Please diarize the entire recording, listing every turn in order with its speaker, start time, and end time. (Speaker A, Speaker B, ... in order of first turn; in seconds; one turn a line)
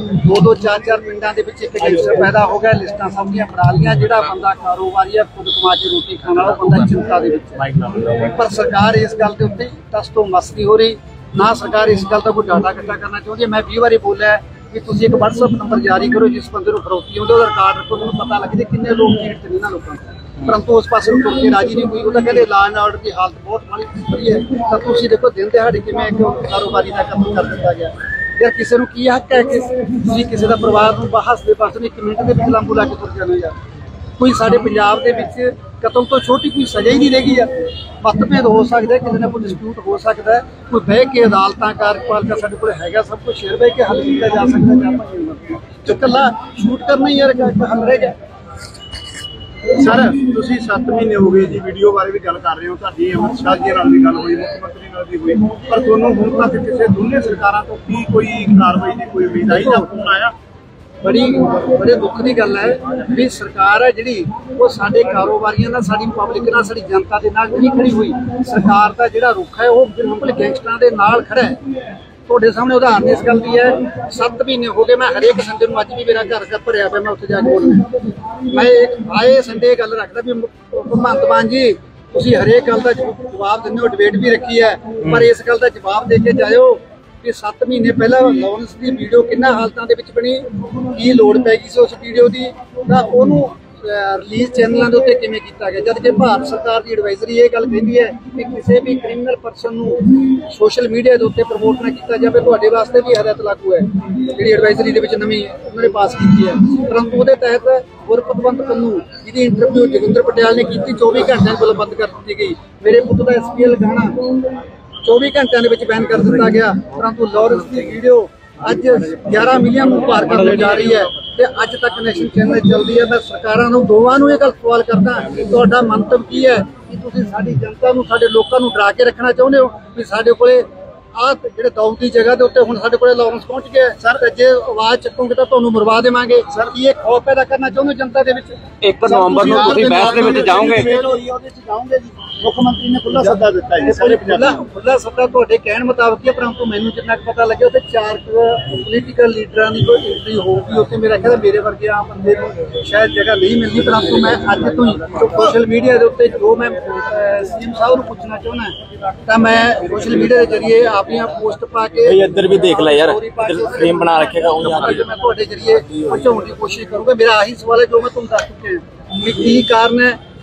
Speaker A: 0.1-33.6
Speaker A: 34.2-37.5
Speaker A: 38.0-48.1
Speaker B: 49.8-55.5
Speaker A: 55.6-58.0
Speaker B: 57.9-60.3
Speaker A: 59.5-59.9
Speaker A: 61.0-71.6
Speaker A: 72.3-77.9
Speaker A: 78.5-114.2
Speaker A: 115.0-138.5
Speaker C: 138.8-140.9
Speaker B: 139.0-144.6
Speaker A: 139.1-141.2
Speaker A: 143.8-158.8
Speaker A: 159.3-170.2
Speaker C: 162.1-165.0
Speaker B: 162.3-164.4